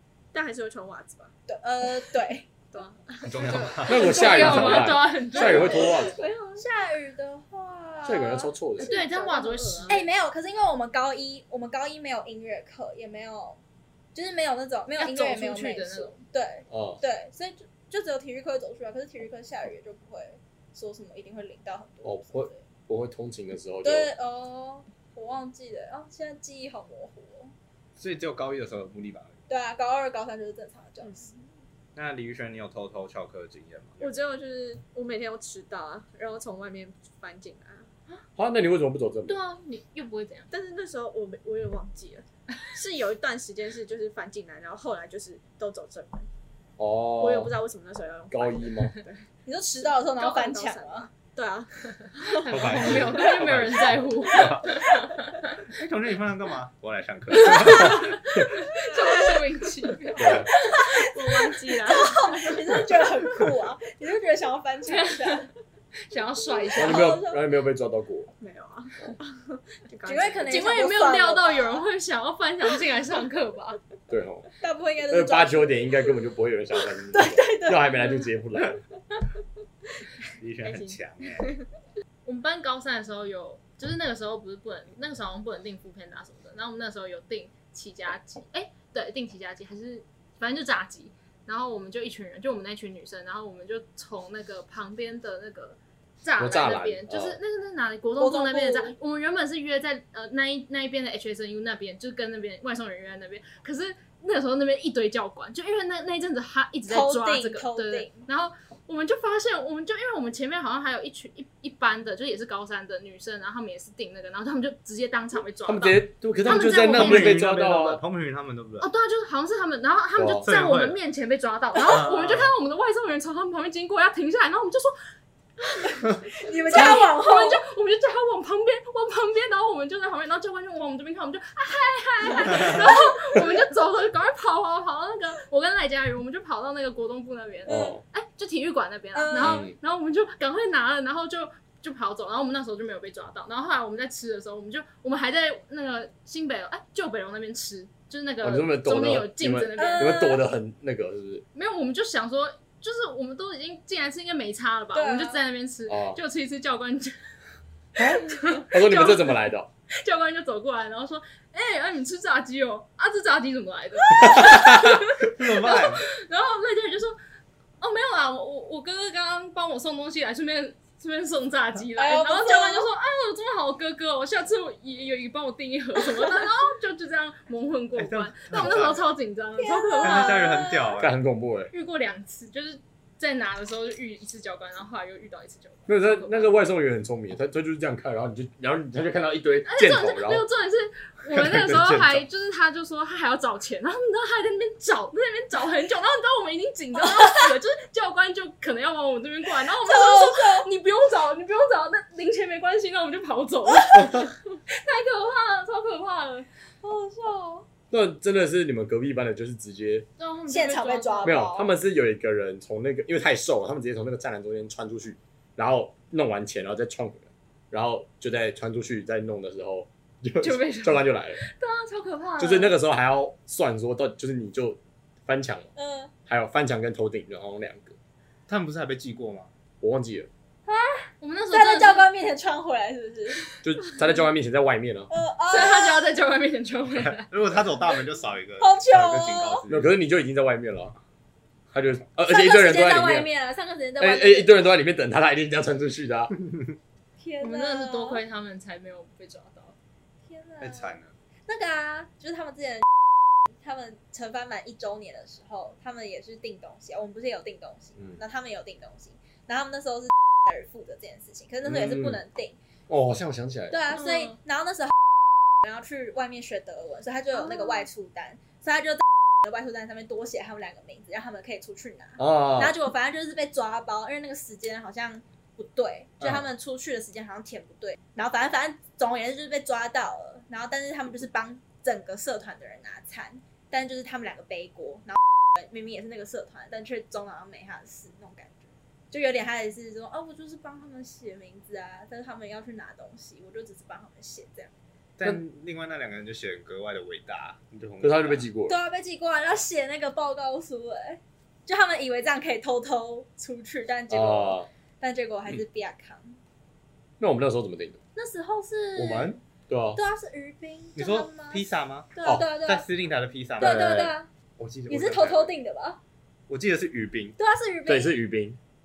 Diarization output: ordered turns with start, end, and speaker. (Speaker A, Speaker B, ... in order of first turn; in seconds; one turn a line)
Speaker A: 0.3-1.3
Speaker B: 1.5-2.5
Speaker A: 2.7-4.4
Speaker C: 3.2-4.8
Speaker D: 3.9-6.2
Speaker E: 3.9-5.8
Speaker B: 3.9-8.5
Speaker A: 5.4-6.7
Speaker D: 8.0-9.0
Speaker A: 8.8-10.1
Speaker E: 8.8-10.0
Speaker B: 9.9-13.6
Speaker B: 14.1-22.6
Speaker E: 15.0-16.2
Speaker D: 16.7-17.0
Speaker D: 22.0-24.1
Speaker B: 23.8-27.5
Speaker C: 28.0-29.4
Speaker B: 29.5-31.4
Speaker C: 31.9-34.2
Speaker A: 34.0-37.9
Speaker D: 38.4-39.4
Speaker E: 39.3-40.5
Speaker A: 40.5-46.3
Speaker D: 46.8-47.5
Speaker A: 47.2-49.2
Speaker D: 48.3-49.0
Speaker B: 49.5-51.1
Speaker A: 50.1-53.4
Speaker E: 52.2-55.6
Speaker C: 52.5-54.9
Speaker C: 55.7-58.4
Speaker E: 57.4-58.1
Speaker E: 58.7-60.5
Speaker A: 58.8-59.4
Speaker D: 60.2-60.5
Speaker B: 60.5-65.5
Speaker A: 60.5-62.8
Speaker E: 64.8-65.5
Speaker E: 66.1-67.2
Speaker B: 66.6-67.4
Speaker D: 66.8-68.3
Speaker A: 68.4-70.7
Speaker B: 70.0-71.8
Speaker E: 70.5-73.8
Speaker D: 74.1-74.5
Speaker B: 74.6-75.9
Speaker D: 75.1-78.8
Speaker B: 77.1-78.3
Speaker C: 80.4-81.6
Speaker A: 80.6-81.6
Speaker E: 82.2-117.4
Speaker D: 96.4-97.4
Speaker B: 98.2-99.0
Speaker B: 106.9-108.2
Speaker D: 115.7-118.0
Speaker C: 116.5-118.9
Speaker E: 118.8-124.9
Speaker D: 120.2-120.5
Speaker C: 120.5-121.0
Speaker B: 121.8-122.1
Speaker C: 121.8-122.5
Speaker B: 126.3-127.6
Speaker E: 126.7-150.3
Speaker B: 137.7-137.9
Speaker D: 137.7-138.0
Speaker B: 139.1-139.7
Speaker D: 139.3-139.7
Speaker D: 148.4-151.4
Speaker B: 149.8-150.4
Speaker E: 151.5-157.2
Speaker B: 154.9-155.4
Speaker D: 155.9-156.2
Speaker E: 158.1-159.3
Speaker B: 158.3-158.6
Speaker D: 158.5-159.7
Speaker E: 159.9-167.2
Speaker D: 164.2-164.9
Speaker C: 165.2-166.1
Speaker E: 167.8-180.7
Speaker B: 172.0-172.9
Speaker C: 178.0-179.1
Speaker B: 179.6-181.0
Speaker C: 180.0-181.1
Speaker D: 181.0-181.7
Speaker E: 181.7-186.5
Speaker D: 185.9-190.4
Speaker E: 189.7-206.5
Speaker C: 191.3-192.2
Speaker B: 199.8-200.7
Speaker D: 204.0-204.3
Speaker B: 206.8-207.7
Speaker D: 207.9-210.1
Speaker E: 210.2-211.4
Speaker B: 210.5-211.7
Speaker D: 211.2-221.4
Speaker E: 220.4-222.8
Speaker D: 222.4-225.7
Speaker B: 225.8-226.1
Speaker D: 226.3-227.9
Speaker C: 228.5-229.5
Speaker D: 229.8-230.3
Speaker B: 230.7-233.4
Speaker E: 231.2-232.1
Speaker D: 233.6-235.1
Speaker B: 235.1-236.1
Speaker E: 235.5-237.3
Speaker C: 237.0-239.9
Speaker B: 238.6-239.6
Speaker D: 239.7-240.9
Speaker D: 241.7-243.3
Speaker B: 242.2-244.6
Speaker D: 244.0-246.3
Speaker B: 247.2-248.2
Speaker E: 247.4-249.8
Speaker B: 250.3-252.9
Speaker C: 250.6-251.1
Speaker B: 253.6-262.6
Speaker D: 261.6-262.2
Speaker D: 262.9-263.8
Speaker B: 263.7-265.0
Speaker E: 264.1-264.3
Speaker B: 265.6-294.7
Speaker D: 272.2-272.8
Speaker C: 295.2-298.5
Speaker D: 298.0-298.8
Speaker B: 298.7-306.4
Speaker D: 304.1-304.7
Speaker D: 307.2-308.0
Speaker B: 308.1-309.4
Speaker D: 309.0-310.0
Speaker C: 309.0-309.3
Speaker B: 309.9-311.6
Speaker C: 311.0-314.0
Speaker B: 312.1-312.9
Speaker D: 313.6-314.1
Speaker B: 313.6-314.3
Speaker C: 314.6-315.5
Speaker B: 314.9-316.0
Speaker C: 316.5-317.4
Speaker B: 317.4-318.1
Speaker D: 317.9-318.6